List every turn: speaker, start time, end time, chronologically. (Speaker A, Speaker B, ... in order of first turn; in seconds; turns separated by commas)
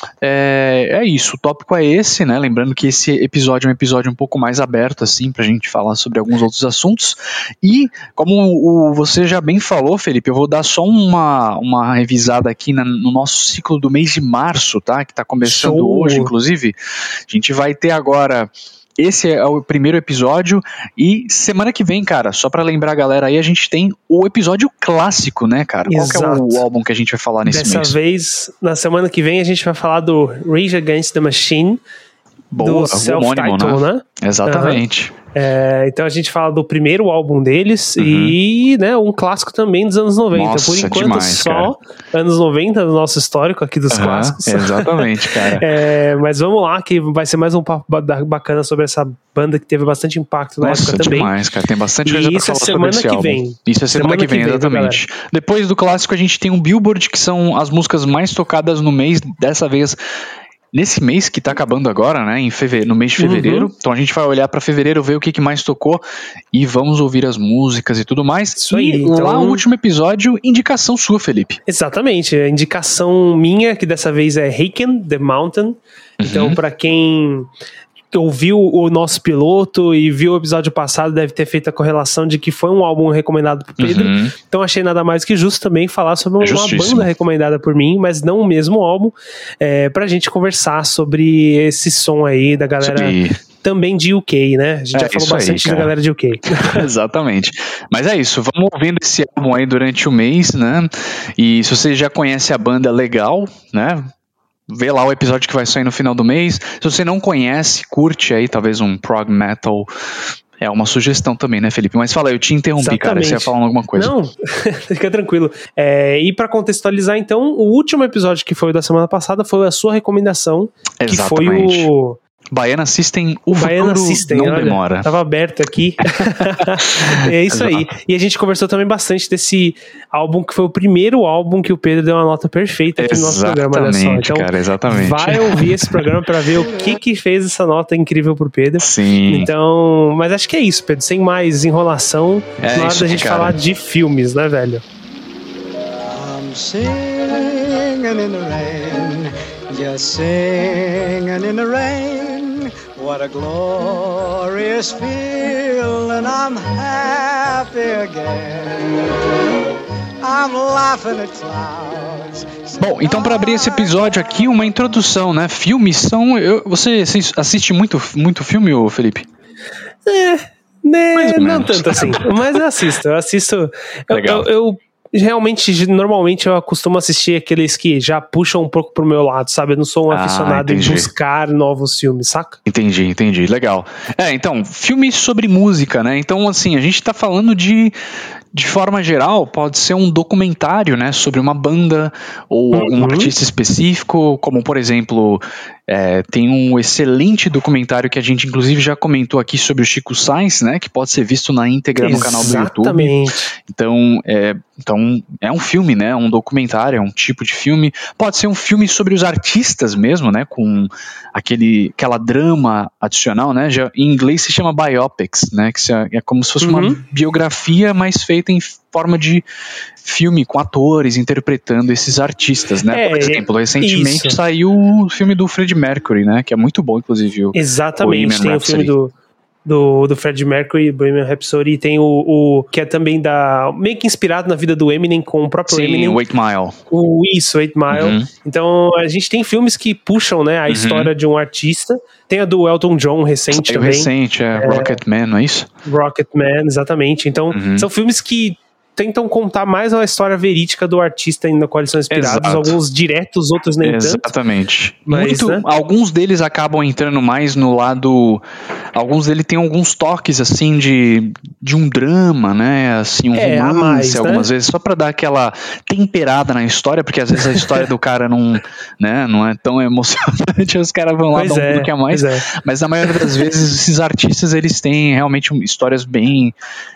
Speaker A: 0.2-16.8, Speaker B: 15.4-16.3, Speaker A: 17.3-28.0, Speaker B: 25.9-26.6, Speaker B: 27.4-31.8, Speaker A: 32.5-35.1, Speaker B: 32.6-34.8, Speaker B: 35.4-51.3, Speaker A: 38.0-38.4, Speaker A: 40.3-41.7, Speaker A: 43.9-45.7, Speaker A: 50.6-60.0, Speaker B: 52.0-55.0, Speaker A: 60.7-71.6, Speaker B: 63.2-63.7, Speaker B: 68.6-69.6, Speaker B: 71.7-77.5, Speaker A: 76.2-76.6, Speaker B: 78.1-96.8, Speaker A: 83.8-84.3, Speaker A: 86.4-87.1, Speaker A: 92.8-93.4, Speaker A: 94.9-95.9, Speaker A: 96.5-104.1, Speaker A: 104.7-109.9, Speaker A: 110.6-114.1, Speaker B: 112.8-122.2, Speaker A: 121.0-121.9, Speaker A: 122.5-125.1, Speaker B: 123.5-144.8, Speaker A: 126.6-127.9, Speaker A: 133.0-136.1, Speaker A: 138.8-139.5, Speaker A: 142.6-143.6, Speaker C: 146.1-159.2, Speaker C: 160.2-164.7, Speaker A: 162.8-169.3, Speaker B: 170.1-182.6, Speaker A: 171.2-172.6, Speaker A: 174.1-174.5, Speaker A: 180.1-181.1, Speaker A: 182.7-187.9, Speaker A: 188.5-219.5, Speaker B: 192.7-193.3, Speaker B: 202.0-203.5, Speaker B: 216.6-217.0, Speaker A: 220.0-228.9, Speaker B: 222.9-224.4, Speaker B: 227.5-229.1, Speaker B: 229.7-236.2, Speaker A: 235.7-236.8, Speaker B: 236.9-245.0, Speaker A: 237.9-238.3, Speaker A: 240.7-241.1, Speaker A: 243.5-245.7, Speaker B: 245.8-254.3, Speaker A: 247.5-247.9, Speaker A: 252.1-252.8, Speaker A: 253.8-276.5, Speaker B: 255.1-255.7, Speaker B: 263.4-264.5, Speaker B: 271.3-272.5, Speaker B: 273.1-273.4